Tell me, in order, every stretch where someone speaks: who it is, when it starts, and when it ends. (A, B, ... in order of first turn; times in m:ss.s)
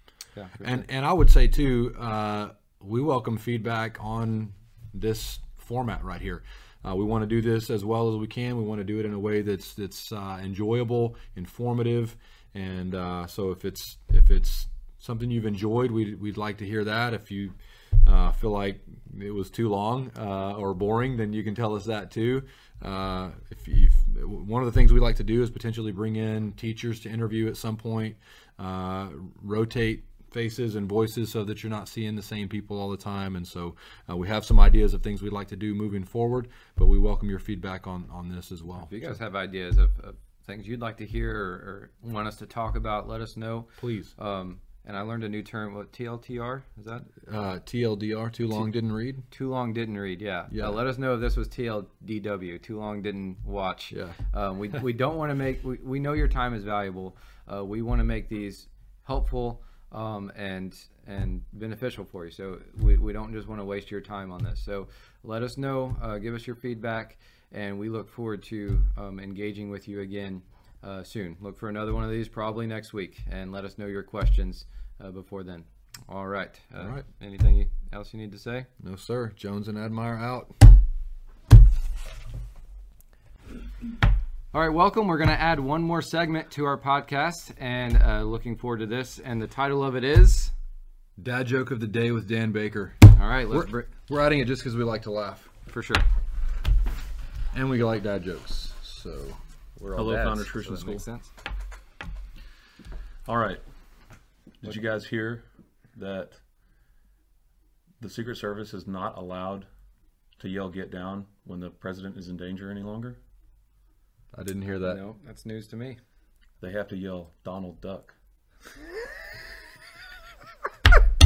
0:00.3-0:00.8 A
0:00.6-0:39.1 B
0:38.8-0:47.1 A
0:43.8-0:44.1 B
0:47.2-0:49.2 B
0:49.3-1:18.7 A
0:50.5-0:50.8 B
0:53.9-0:54.2 B
1:16.8-1:17.0 B
1:18.8-1:20.7 B
1:24.5-1:30.5 A
1:31.2-1:35.5 B
1:33.1-1:33.9 A
1:35.7-1:36.0 A
1:37.5-1:39.4 B
1:39.8-1:41.3 A
1:39.9-1:41.0 C
1:43.2-1:43.6 C
1:44.6-1:46.4 C
1:48.0-1:49.7 C
1:50.4-1:53.2 C
1:54.3-1:55.0 B
1:54.8-1:56.0 A
1:56.6-1:58.1 C